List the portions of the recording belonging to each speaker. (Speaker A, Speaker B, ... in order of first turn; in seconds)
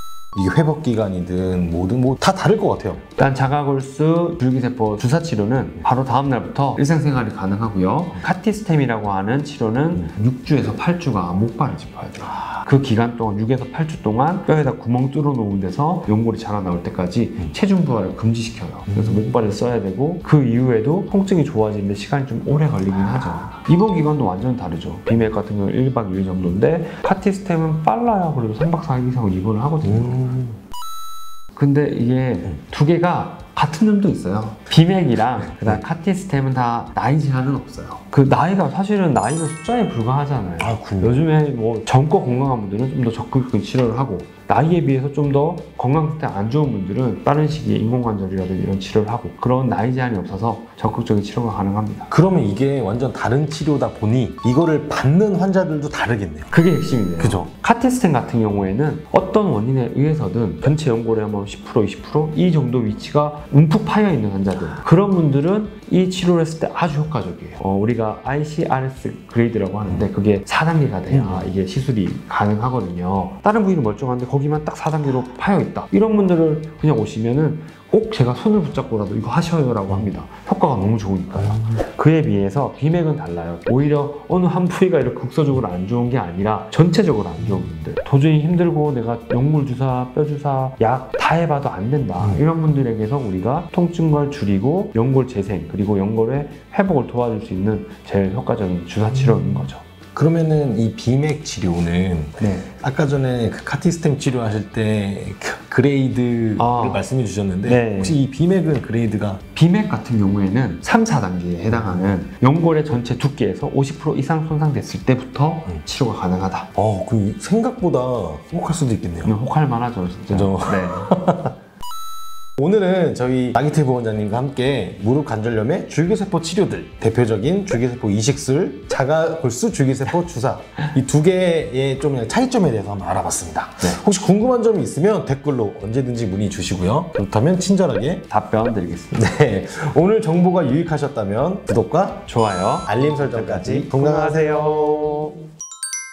Speaker A: 0.3-3.0, 29.9-30.6, 40.6-41.2, 52.1-56.5, 57.2-57.5, 71.1-71.5, 100.1-109.4, 116.8-119.3, 120.3-121.5, 122.6-138.2, 139.1-142.3, 142.9-145.4
Speaker B: 3.1-30.4, 31.5-52.1, 56.5-99.8, 102.4-102.7, 106.6-107.0, 107.6-108.2, 109.5-116.7, 119.2-121.2, 138.3-139.2, 142.3-145.3